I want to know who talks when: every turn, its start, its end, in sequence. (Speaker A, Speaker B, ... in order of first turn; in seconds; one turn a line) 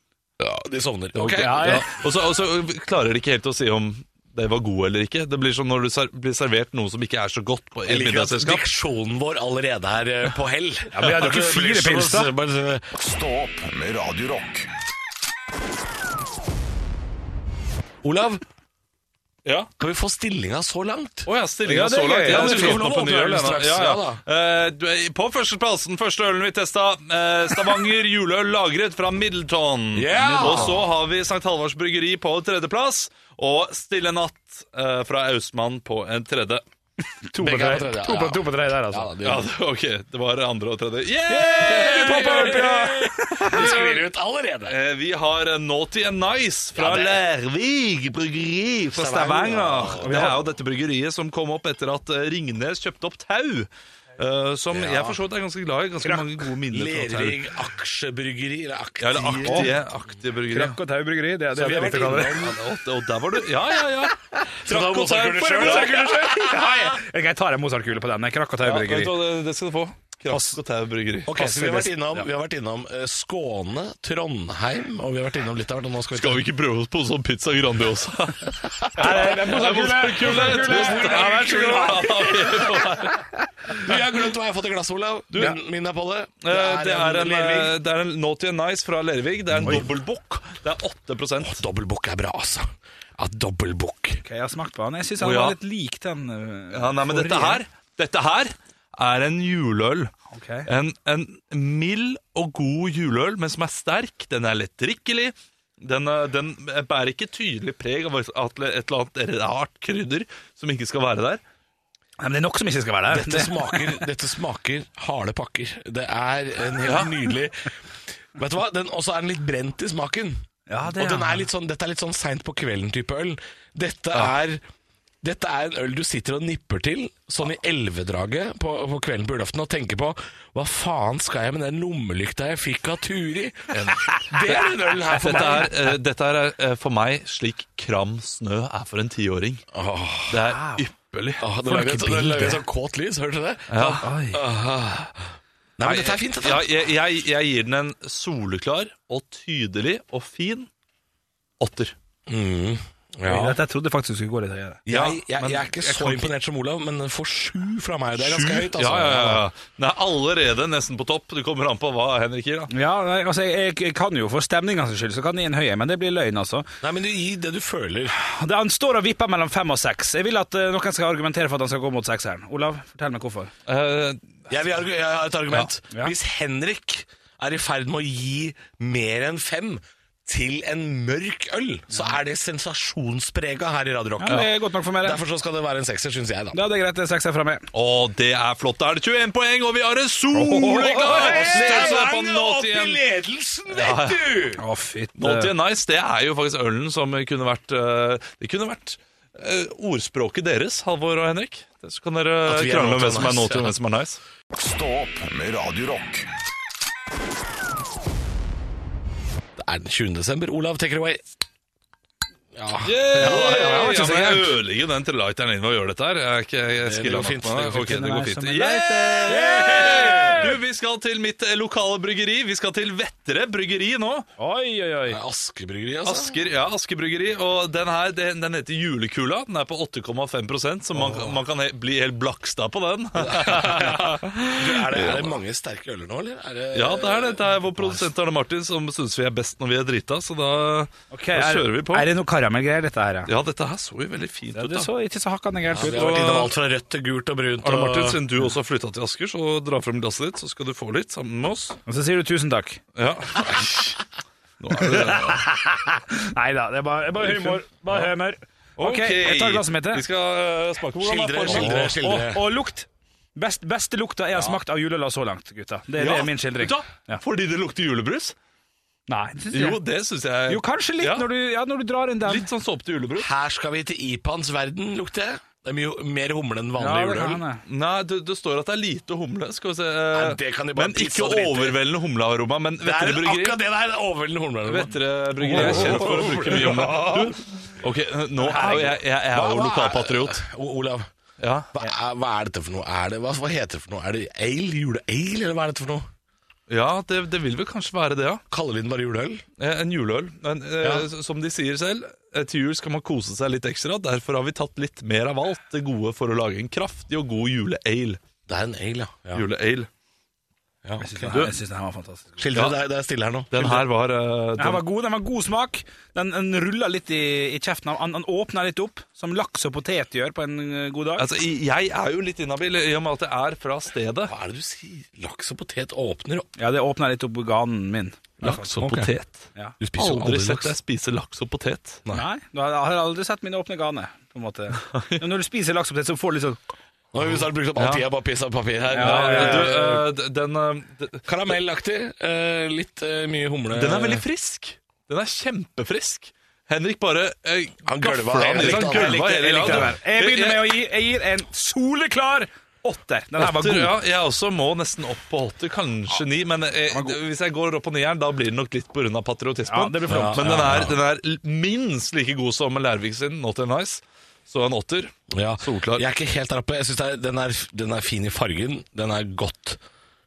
Speaker A: 0.4-1.9
Speaker B: 1.1-8.6
Speaker C: 1.2-1.9
Speaker A: 7.8-12.9
Speaker C: 10.9-12.3
Speaker D: 12.9-14.7
Speaker A: 18.0-18.4
Speaker B: 19.4-19.7
Speaker A: 19.8-21.3
Speaker B: 21.2-36.6
Speaker C: 21.6-22.8
Speaker A: 22.2-24.2
Speaker A: 29.9-30.9
Speaker C: 30.1-30.8
Speaker C: 37.2-39.1
Speaker A: 37.4-39.5
Speaker B: 39.2-44.0
Speaker C: 41.3-43.8
Speaker A: 41.4-44.8
Speaker B: 44.6-57.5
Speaker A: 46.7-47.2
Speaker A: 48.9-50.4
Speaker C: 50.0-50.4
Speaker A: 54.7-55.2
Speaker C: 56.0-56.5
Speaker A: 56.7-59.7
Speaker B: 59.0-60.8
Speaker C: 59.4-59.7
Speaker C: 60.5-62.5
Speaker A: 61.5-62.6
Speaker B: 62.2-66.0
Speaker A: 64.5-66.7
Speaker C: 64.7-69.2
Speaker B: 68.6-71.4
Speaker A: 71.2-76.4
Speaker C: 71.3-72.2
Speaker B: 76.1-83.9
Speaker A: 79.0-83.1
Speaker C: 79.0-82.3
Speaker A: 83.7-87.8
Speaker B: 86.4-91.6
Speaker A: 89.5-89.9
Speaker A: 91.4-94.2
Speaker C: 94.2-97.6
Speaker B: 95.2-95.5
Speaker B: 96.7-100.1
Speaker C: 100.3-100.7
Speaker B: 100.7-111.4
Speaker C: 112.2-114.0
Speaker A: 113.1-117.7
Speaker B: 116.8-117.2
Speaker A: 118.3-124.6
Speaker C: 120.7-121.4
Speaker A: 125.2-135.8
Speaker B: 133.7-139.6
Speaker C: 135.2-135.7
Speaker A: 139.7-140.4
Speaker B: 140.3-141.5
Speaker C: 140.5-140.8
Speaker A: 141.4-146.7
Speaker C: 141.7-142.6
Speaker B: 143.7-144.1
Speaker C: 143.8-144.4
Speaker B: 145.8-150.7
Speaker B: 151.6-151.9
Speaker A: 152.3-153.6
Speaker C: 153.2-154.8
Speaker A: 154.8-159.4
Speaker B: 154.9-156.3
Speaker B: 158.2-162.7
Speaker C: 162.7-166.7
Speaker A: 166.8-168.1
Speaker C: 168.1-173.5
Speaker B: 173.7-174.4
Speaker A: 174.5-186.6
Speaker C: 184.2-185.2
Speaker C: 186.5-187.7
Speaker B: 187.7-193.0
Speaker C: 190.3-191.9
Speaker A: 190.9-194.6
Speaker B: 193.7-194.4
Speaker C: 194.6-195.5
Speaker B: 195.2-204.2
Speaker A: 202.4-203.7
Speaker D: 204.5-206.3
Speaker A: 209.6-211.2
Speaker A: 212.5-214.0
Speaker B: 212.8-224.3
Speaker C: 213.2-214.5
Speaker A: 216.8-217.9
Speaker C: 217.7-220.6
Speaker A: 219.3-220.5
Speaker C: 224.4-225.2
Speaker A: 225.1-226.4
Speaker B: 226.0-235.3
Speaker A: 233.2-238.0
Speaker B: 236.7-242.1
Speaker C: 241.1-243.3
Speaker B: 243.3-244.9
Speaker C: 244.5-246.4
Speaker A: 245.7-248.2
Speaker B: 245.8-246.5
Speaker B: 247.6-251.8
Speaker C: 251.8-252.8
Speaker B: 252.9-254.0
Speaker B: 254.6-255.4
Speaker C: 254.7-260.0
Speaker B: 257.2-258.1
Speaker B: 258.8-261.9
Speaker A: 261.0-262.4
Speaker C: 261.4-267.2
Speaker B: 266.0-268.3
Speaker C: 269.1-269.8
Speaker B: 269.5-271.3
Speaker C: 270.5-272.5
Speaker B: 272.2-273.3
Speaker A: 273.2-277.4
Speaker C: 276.8-277.6
Speaker B: 277.6-283.6
Speaker A: 280.1-281.8
Speaker A: 282.8-287.1
Speaker B: 284.6-290.4
Speaker C: 285.4-287.3
Speaker C: 288.5-288.9
Speaker A: 288.5-291.1
Speaker B: 291.4-291.7
Speaker A: 291.7-296.1
Speaker B: 296.7-298.4
Speaker A: 298.5-299.4
Speaker B: 299.6-308.2
Speaker A: 300.8-301.1
Speaker A: 308.5-309.4
Speaker B: 309.3-309.9
Speaker A: 310.8-311.3
Speaker C: 311.0-312.4
Speaker B: 311.3-311.5
Speaker A: 312.4-313.9
Speaker B: 312.5-312.8
Speaker B: 313.5-314.8
Speaker C: 314.6-321.3
Speaker B: 321.2-324.3
Speaker A: 324.3-326.5
Speaker C: 326.6-328.7
Speaker A: 328.4-329.1
Speaker B: 328.4-332.0
Speaker A: 329.8-330.8
Speaker C: 332.1-336.6
Speaker B: 334.9-335.2
Speaker A: 337.1-340.0
Speaker B: 337.8-338.0
Speaker C: 338.9-339.8
Speaker B: 338.9-341.3
Speaker A: 341.3-344.2
Speaker B: 343.7-350.7
Speaker A: 347.8-349.9
Speaker C: 348.5-353.9
Speaker B: 353.4-366.0
Speaker C: 356.9-357.2
Speaker C: 359.7-360.6
Speaker A: 360.1-361.0
Speaker A: 365.3-369.8